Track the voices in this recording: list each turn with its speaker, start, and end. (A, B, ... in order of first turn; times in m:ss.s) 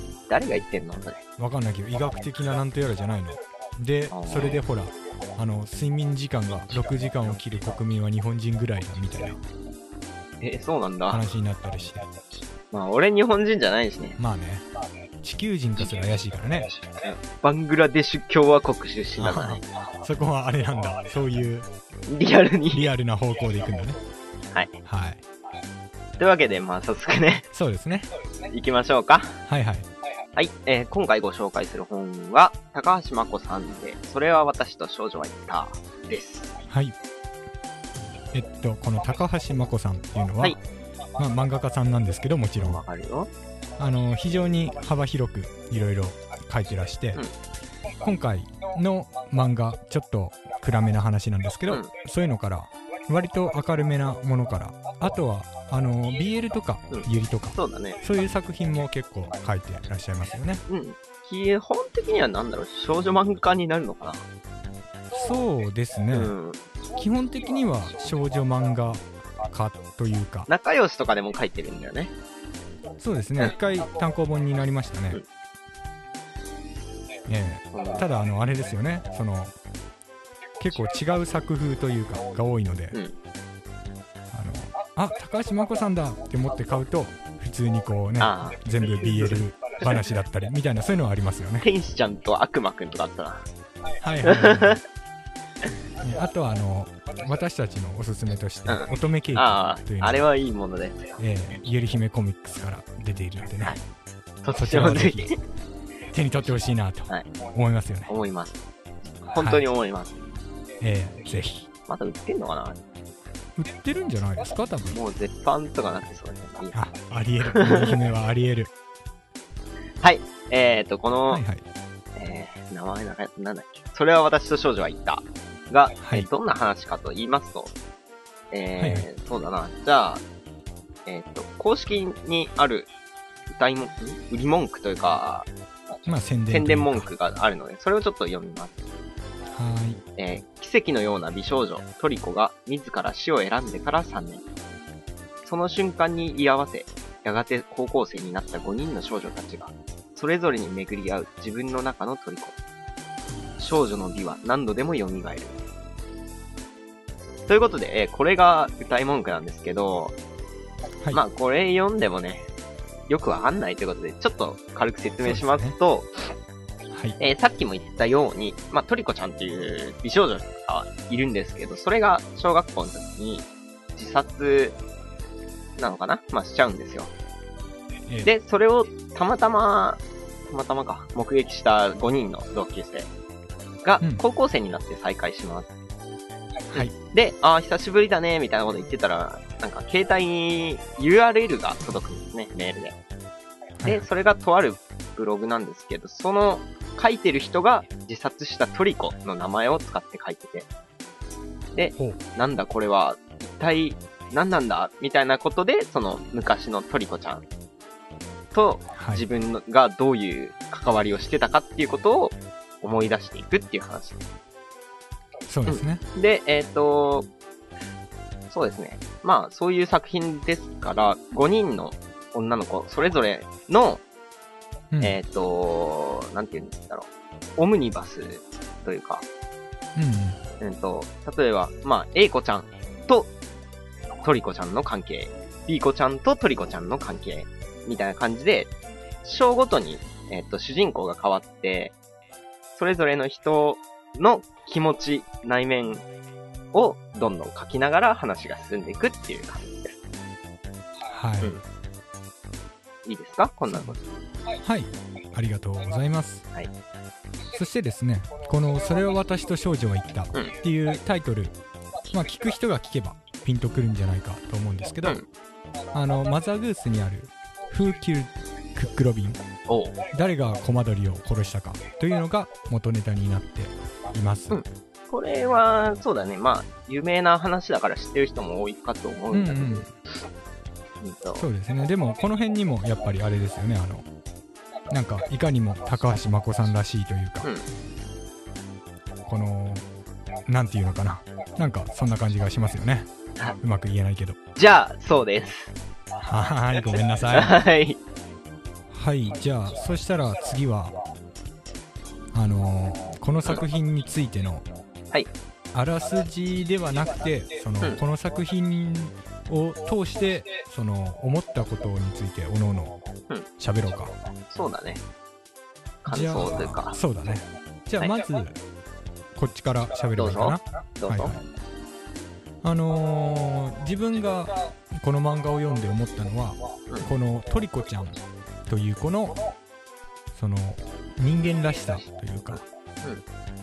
0:00.3-0:01.2 A
0:01.4-0:09.4 B
0:04.1-0:04.6 A
0:10.4-0:11.2 A
0:11.1-0:12.0 B
0:12.7-0:14.2 A
0:14.2-0:14.7 B
0:15.2-0:16.7 B
0:17.0-0:19.6 A
0:19.2-0:21.7 B
0:22.1-0:22.9 A
0:22.7-0:24.0 B
0:24.8-0:25.2 B
0:26.2-0:27.5 A
0:27.5-0:28.1 B
0:28.5-0:29.4 A
0:29.5-0:29.9 B
0:30.4-0:36.5 A
0:36.7-0:37.0 B
0:38.3-0:40.6 B
0:41.2-0:42.8 B
0:42.6-0:43.3 A
0:43.8-0:47.2 B
0:48.0-1:00.6 B
0:56.9-0:58.0 A
1:00.7-1:04.2 A
1:05.1-1:06.3 B
1:06.1-1:06.6 A
1:07.0-1:10.5 B
1:10.5-1:12.1 A
1:13.0-1:15.2 B
1:17.3-1:19.5 B
1:17.7-1:18.0 A
1:20.6-1:23.0 B
1:24.3-1:31.7 B
1:28.2-1:29.4 A
1:31.6-1:33.4 A
1:34.0-1:34.8 B
1:34.2-1:34.8 A
1:36.0-1:40.2 B
1:38.7-1:41.2 A
1:41.2-1:43.8 B
1:44.4-1:45.4 A
1:44.5-1:45.3 B
1:46.1-1:48.1 B
1:48.1-1:48.6 A
1:49.2-1:50.2 A
1:49.3-1:49.6 B
1:50.8-1:51.7 B
1:51.9-1:52.8 A
1:53.6-1:55.0 B
1:54.9-1:56.8 A
1:56.7-1:58.7 B
1:57.4-1:57.9 A
2:00.0-2:01.4 A
2:01.3-2:01.6 B
2:02.2-2:07.7 A
2:06.0-2:06.3 B
2:08.5-2:10.2 A
2:08.8-2:09.1 B
2:11.1-2:12.9 A
2:13.5-2:15.5 A
2:16.1-2:17.1 B
2:16.5-2:18.8 A
2:19.5-2:20.0 B
2:20.2-2:24.4 A
2:25.4-2:32.6 A
2:33.6-2:35.5 A
2:37.5-2:40.2 A
2:41.1-2:42.5 A
2:43.1-2:46.1 A
2:45.2-2:45.7 B
2:46.9-2:47.2 B
2:47.2-2:54.8 A
2:55.8-2:57.1 A
2:58.2-3:03.1 A
3:03.8-3:05.7 A
3:06.7-3:13.0 A
3:13.8-3:14.1 B
3:13.8-3:20.7 A
3:21.8-3:27.4 A
3:28.5-3:34.2 A
3:29.0-3:29.3 B
3:35.5-3:36.0 B
3:35.7-3:37.3 A
3:38.5-3:44.0 A
3:44.9-3:45.2 B
3:45.0-3:49.2 A
3:50.0-3:50.4 B
3:50.6-3:53.3 A
3:54.2-3:58.7 A
3:59.2-4:02.0 A
4:02.8-4:06.0 A
4:06.7-4:10.0 A
4:11.1-4:11.6 B
4:13.0-4:14.0 A
4:13.7-4:14.0 B
4:14.6-4:16.4 B
4:17.5-4:21.6 B
4:22.1-4:25.2 B
4:25.9-4:29.4 B
4:29.7-4:30.0 A
4:30.1-4:34.6 B
4:34.5-4:39.9 A
4:39.3-4:39.9 B
4:41.0-4:41.5 A
4:41.4-4:44.1 B
4:44.9-4:47.5 B
4:49.3-4:49.8 B
4:50.5-4:53.1 B
4:53.6-4:54.4 B
4:54.6-4:55.7 A
4:56.2-4:57.5 B
4:57.3-4:58.0 A
4:58.9-5:01.0 B
5:02.3-5:04.7 B
5:05.7-5:13.0 B
5:13.6-5:14.1 B
5:14.5-5:15.0 A
5:16.0-5:17.0 A
5:16.1-5:18.6 B
5:19.4-5:21.4 B
5:20.2-5:21.3 A
5:22.6-5:29.4 B
5:30.4-5:32.6 B